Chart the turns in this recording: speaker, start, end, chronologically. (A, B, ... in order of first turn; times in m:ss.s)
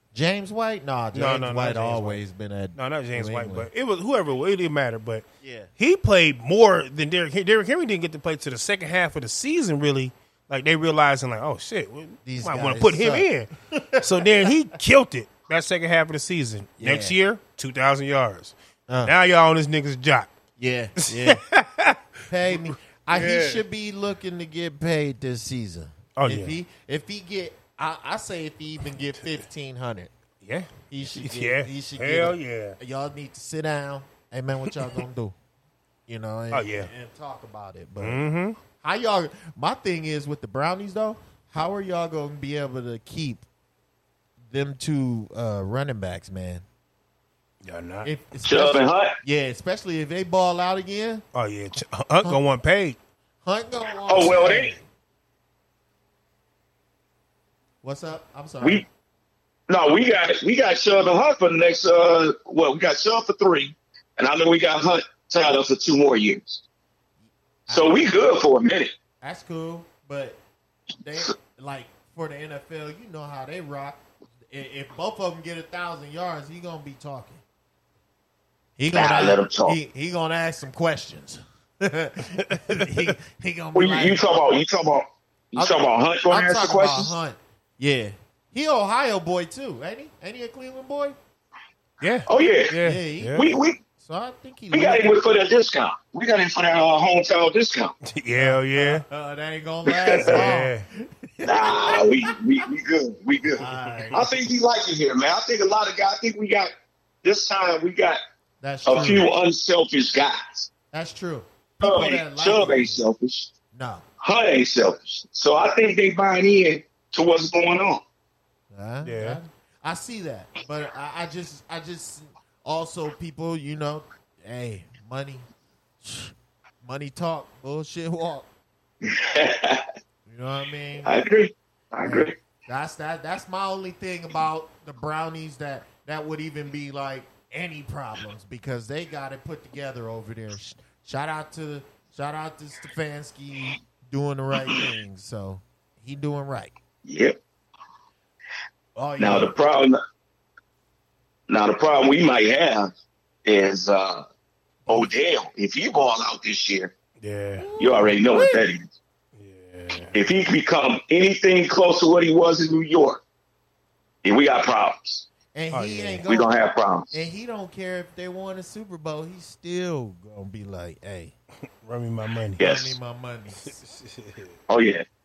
0:00.1-0:03.7 A
0:01.1-0:02.2 B
0:02.7-0:05.2 B
0:05.4-0:05.7 A
0:05.8-0:13.5 B
0:12.2-0:14.5 A
0:14.0-0:20.3 B
0:16.8-0:17.2 A
0:18.9-0:19.1 A
0:20.6-0:21.4 A
0:21.0-0:23.6 B
0:22.3-0:30.1 A
0:26.2-0:26.6 B
0:30.4-0:32.8 B
0:30.9-0:35.3 A
0:36.1-0:38.2 A
0:36.5-0:36.9 B
0:38.0-0:38.6 B
0:38.8-0:43.4 A
0:44.5-0:46.6 A
0:47.6-0:48.1 B
0:48.0-0:51.2 A
0:48.4-0:49.2 C
0:51.3-0:53.0 B
0:53.4-0:54.8 A
0:54.1-0:54.7 C
0:57.8-0:58.8 A
0:59.7-1:06.6 C
1:07.7-1:08.3 A
1:07.7-1:08.9 C
1:09.2-1:10.4 A
1:11.0-1:14.0 A
1:14.5-1:17.4 A
1:18.8-1:24.3 A
1:18.9-1:19.8 C
1:22.5-1:22.9 B
1:23.7-1:27.1 C
1:25.6-1:31.2 A
1:32.0-1:33.5 B
1:32.3-1:32.7 C
1:32.7-1:33.5 A
1:33.3-1:33.8 C
1:34.0-1:35.1 A
1:34.7-1:38.0 C
1:38.0-1:39.0 B
1:38.3-1:42.4 A
1:39.9-1:40.5 C
1:40.2-1:40.8 B
1:41.4-1:46.7 C
1:43.6-1:44.2 A
1:43.8-1:44.2 B
1:47.2-1:48.2 C
1:48.6-1:49.3 A
1:48.8-1:50.7 C
1:50.9-1:53.0 A
1:51.8-1:53.5 C
1:53.7-1:54.0 A
1:54.2-1:58.0 C
1:58.7-2:05.4 A
1:59.0-1:59.4 B
2:06.0-2:08.4 A
2:09.0-2:09.8 C
2:10.3-2:11.1 A
2:11.0-2:12.3 C
2:12.0-2:26.7 A
2:27.0-2:27.4 C
2:29.0-2:29.5 A
2:29.2-2:30.0 C
2:31.5-2:32.9 C
2:33.4-2:34.2 C
2:34.9-2:36.9 C
2:37.2-2:37.7 B
2:37.6-2:38.6 A
2:37.8-2:38.8 C
2:39.4-2:40.2 B
2:40.1-2:43.2 C
2:44.2-2:45.3 C
2:45.5-2:46.6 A
2:45.7-2:46.2 B
2:46.3-2:47.1 C
2:47.1-2:51.3 A
2:51.8-2:52.6 B
2:52.6-2:53.0 C
2:52.6-2:53.8 A
2:53.6-2:54.5 B
2:54.7-2:55.0 C